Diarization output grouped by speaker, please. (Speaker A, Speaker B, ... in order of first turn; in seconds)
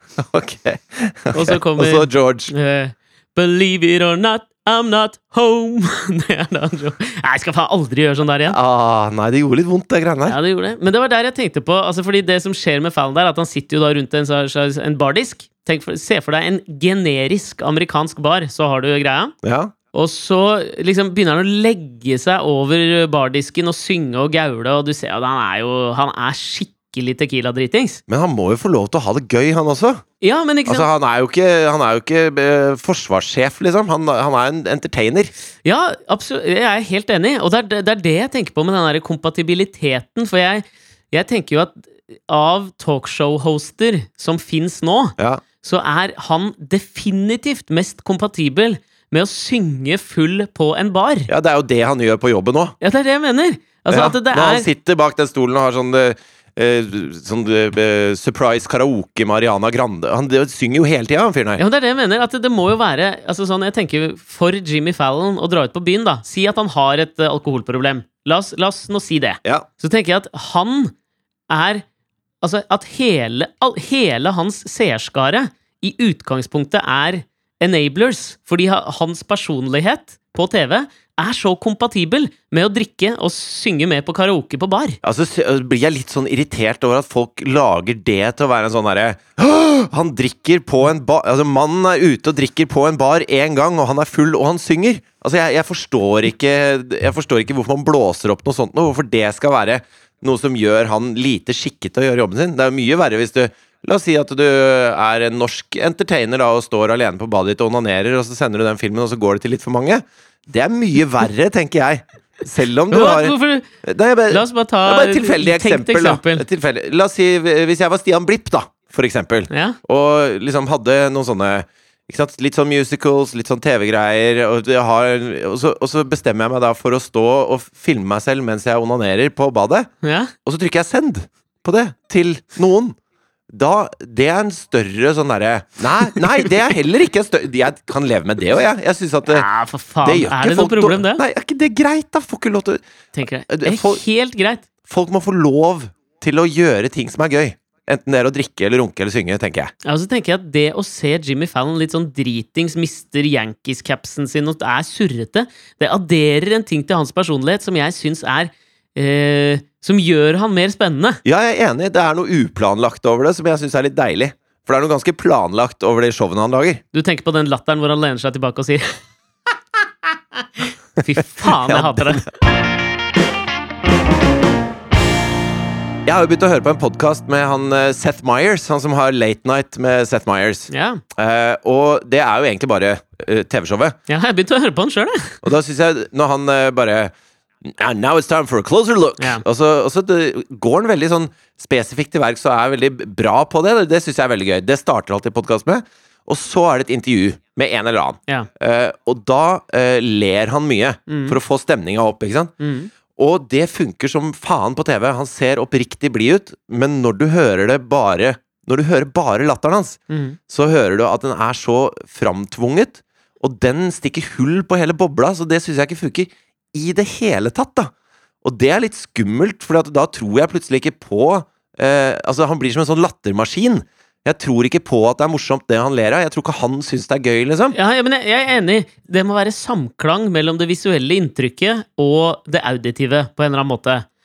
Speaker A: 0.2-2.5, 8.5-10.3, 19.4-19.7, 28.1-30.0, 30.6-35.3, 45.2-45.4, 51.3-52.7, 53.9-61.6, 85.0-129.9, 130.4-132.9, 133.5-139.5, 140.0-142.8, 143.5-144.0, 144.8-149.7, 161.2-166.8, 171.4-172.2, 176.0-183.9, 185.4-187.1, 187.6-202.5, 203.2-217.9, 218.4-227.8
Speaker B: 1.3-8.6, 10.3-19.3, 19.9-28.0, 30.2-30.9, 35.6-51.3, 52.8-54.7, 61.6-70.9, 71.5-71.8, 72.4-85.0, 112.9-113.7, 114.3-116.4, 119.5-119.8, 130.0-130.3, 139.3-141.2, 143.1-144.7, 149.8-161.2, 166.9-169.0, 171.0-172.3, 180.7-181.0, 184.1-185.4, 189.2-189.4, 201.1-201.3, 202.6-202.9, 210.1-210.4, 227.7-234.1